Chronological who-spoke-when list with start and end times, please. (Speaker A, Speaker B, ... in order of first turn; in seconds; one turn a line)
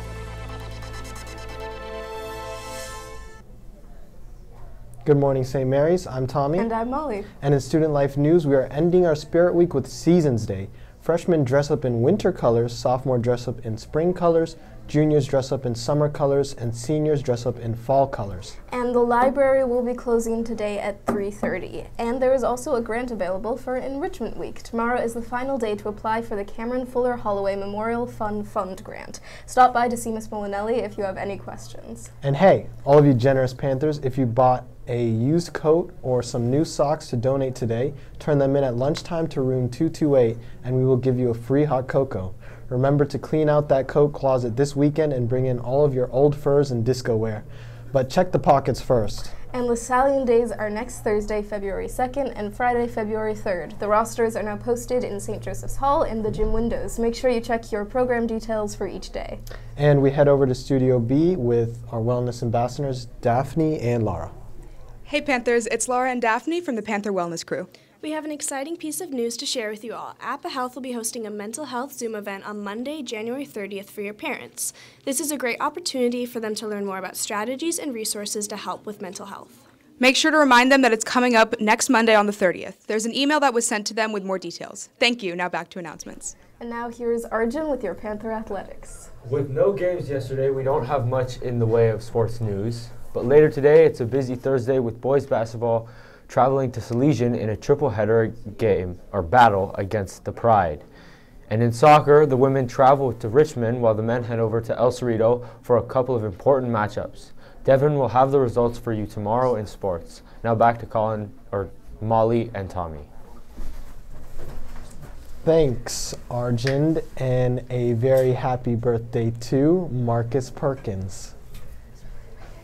Speaker A: 5.0-6.7
Speaker B: 6.6-7.3
Speaker A: 7.4-18.6
Speaker B: 18.7-32.1
Speaker A: 32.2-49.3
Speaker B: 49.5-59.4
Speaker A: 59.8-64.3
Speaker C: 65.1-67.7
Speaker D: 68.0-79.6
Speaker C: 80.0-86.3
Speaker B: 86.6-89.1
Speaker E: 89.2-100.8
Speaker E: 101.5-113.1
Speaker A: 115.4-121.3